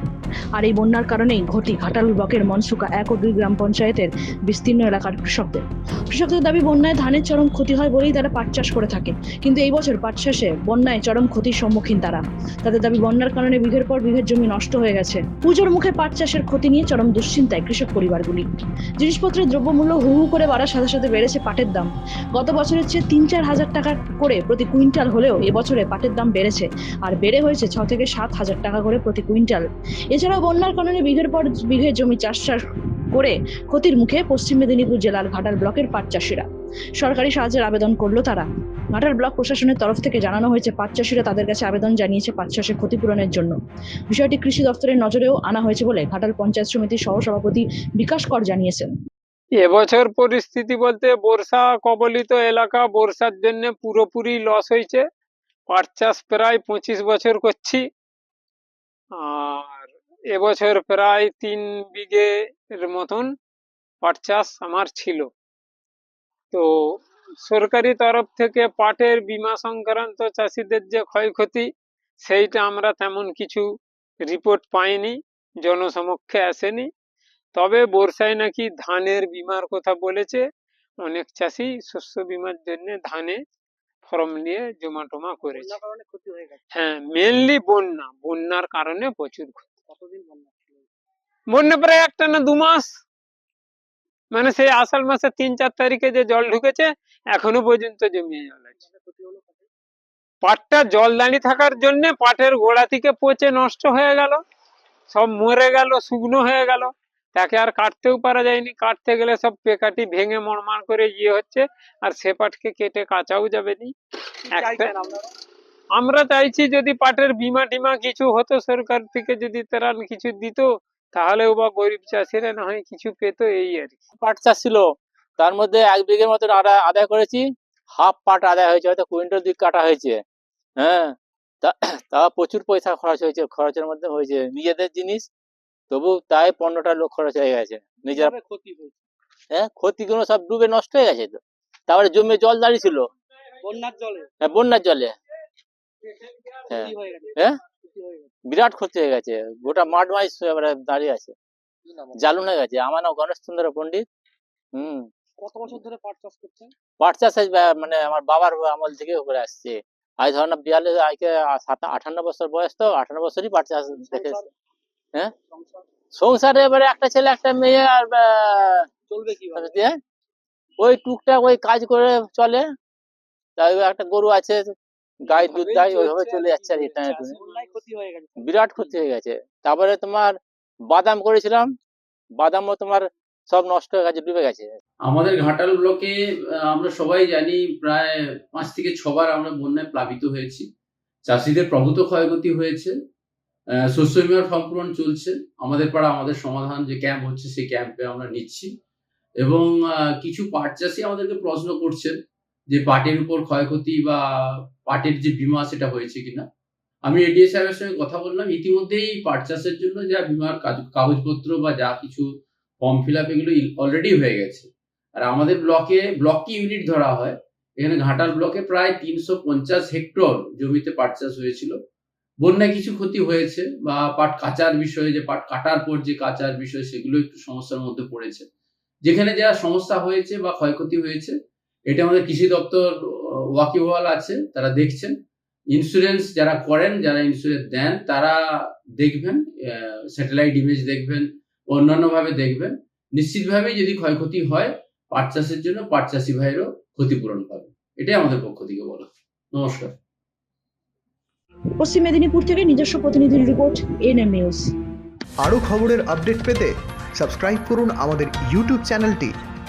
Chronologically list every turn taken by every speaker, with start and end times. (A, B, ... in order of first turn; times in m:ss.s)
0:00.6-0:18.5 A
0:19.0-0:32.6 A
0:33.1-0:36.5 A
0:37.0-0:43.6 A
0:44.1-0:48.9 A
0:49.6-0:55.0 B
0:55.7-0:57.8 B
0:59.2-1:03.3 B
1:04.0-1:05.3 B
1:06.5-1:11.7 B
1:12.2-1:13.7 B
1:14.2-1:16.9 B
1:17.6-1:20.4 B
1:21.0-1:23.4 B
1:24.1-1:25.8 B
1:25.5-1:26.6 C
1:26.8-1:29.7 B
1:29.9-1:30.9 C
1:31.5-1:32.9 B
1:34.3-1:38.8 B
1:38.8-1:39.7 C
1:40.4-1:44.4 B
1:45.1-1:53.9 B
1:54.5-1:54.9 B
1:54.6-1:55.3 C
1:56.0-2:04.0 B
2:04.2-2:10.2 D
2:10.8-2:15.3 D
2:15.9-2:18.3 D
2:18.0-2:19.0 C
2:19.5-2:23.1 D
2:23.6-2:24.3 C
2:24.4-2:25.2 D
2:26.7-2:27.4 C
2:26.7-2:27.6 D
2:27.9-2:28.3 C
2:28.5-2:31.4 D
2:32.2-2:34.1 D
2:34.8-2:35.1 D
2:35.4-2:36.7 C
2:37.0-2:44.4 D
2:44.1-2:44.5 C
2:45.5-2:45.8 C
2:46.2-2:48.9 D
2:49.1-2:49.8 C
2:49.5-2:50.0 D
2:50.8-2:52.6 D
2:53.6-2:54.7 D
2:55.2-2:57.4 D
2:55.3-2:57.8 B
2:56.6-2:58.5 C
2:58.4-3:00.4 D
3:00.9-3:01.7 D
3:02.4-3:04.7 D
3:05.0-3:10.7 E
3:11.3-3:12.9 E
3:13.8-3:18.7 E
3:19.4-3:22.2 E
3:22.7-3:26.5 E
3:27.1-3:32.2 E
3:32.8-3:34.7 E
3:35.2-3:41.8 E
3:42.4-3:48.5 E
3:49.1-3:51.4 E
3:51.9-3:55.1 E
3:55.7-3:58.4 E
3:59.0-4:09.9 E
4:11.8-4:14.7 A
4:15.4-4:19.3 F